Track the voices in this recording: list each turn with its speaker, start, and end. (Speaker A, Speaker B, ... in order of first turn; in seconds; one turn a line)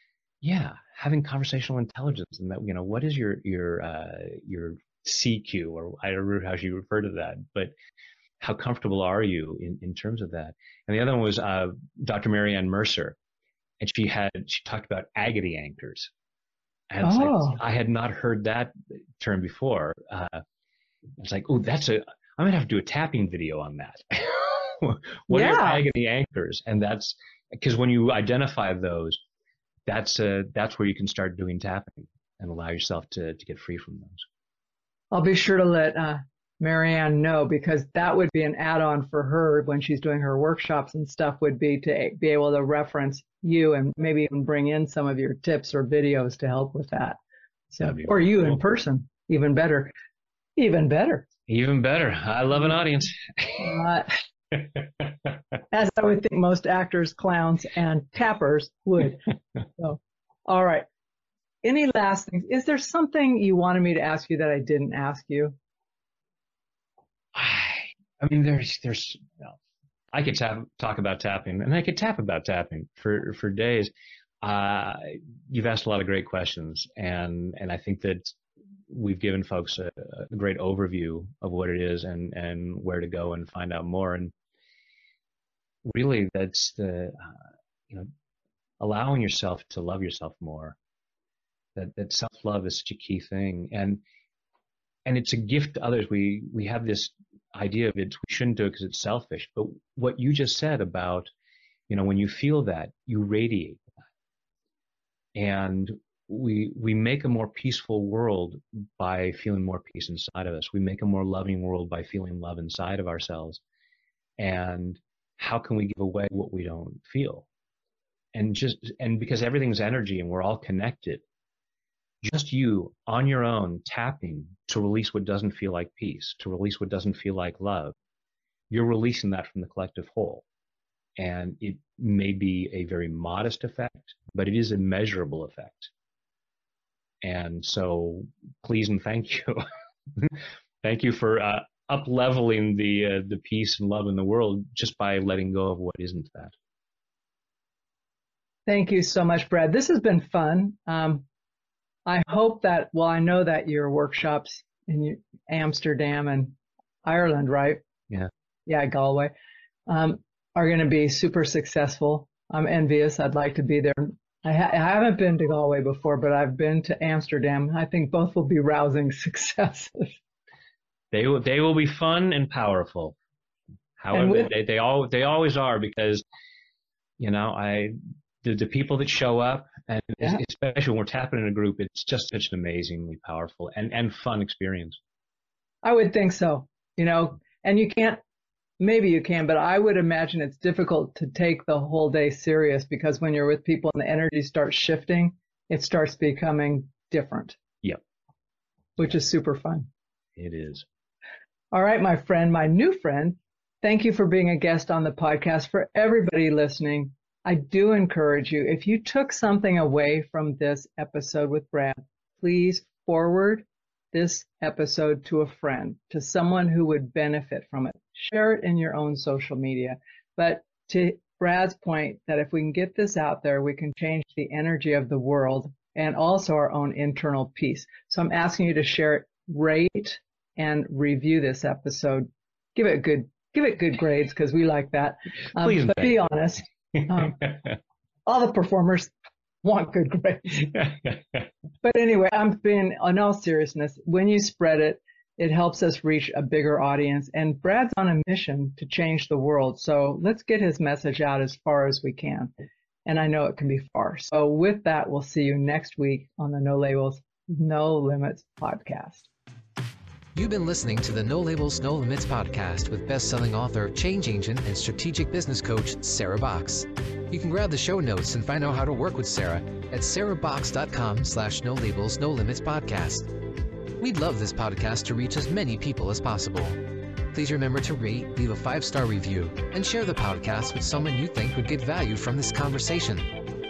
Speaker A: 0.4-7.7
Speaker A: 8.4-13.2
Speaker A: 13.8-16.1
Speaker A: 16.9-20.4
Speaker B: 17.0-17.6
Speaker A: 21.2-29.2
Speaker B: 25.3-25.9
Speaker A: 29.9-34.2
Speaker B: 35.1-47.2
Speaker B: 47.7-49.9
Speaker A: 47.8-48.2
Speaker B: 50.6-51.3
Speaker A: 51.5-53.8
Speaker B: 53.5-54.1
Speaker B: 55.7-60.9
Speaker B: 61.6-65.5
Speaker A: 67.3-69.6
Speaker A: 70.1-78.3
Speaker A: 78.9-84.3
Speaker A: 85.8-87.4
Speaker A: 88.8-90.8
Speaker A: 91.8-94.0
Speaker A: 95.1-101.3
Speaker A: 101.9-103.8
Speaker A: 105.3-113.6
Speaker A: 114.4-117.5
Speaker A: 118.3-121.2
Speaker A: 122.2-128.0
Speaker A: 128.7-130.4
Speaker A: 131.2-135.9
Speaker A: 137.2-139.6
Speaker A: 140.2-146.5
Speaker B: 148.7-151.2
Speaker B: 152.1-157.8
Speaker B: 158.7-159.3
Speaker B: 159.9-170.2
Speaker A: 171.1-173.2
Speaker A: 174.0-176.2
Speaker B: 174.1-174.5
Speaker A: 177.2-185.0
Speaker B: 185.8-188.2
Speaker B: 188.8-197.6
Speaker B: 199.0-199.9
Speaker A: 200.4-200.9
Speaker B: 201.7-237.6
Speaker A: 235.6-236.2
Speaker B: 238.3-239.1
Speaker B: 239.6-241.0
Speaker B: 241.8-252.5
Speaker B: 253.1-259.3
Speaker C: 260.4-273.4
Speaker C: 274.0-283.4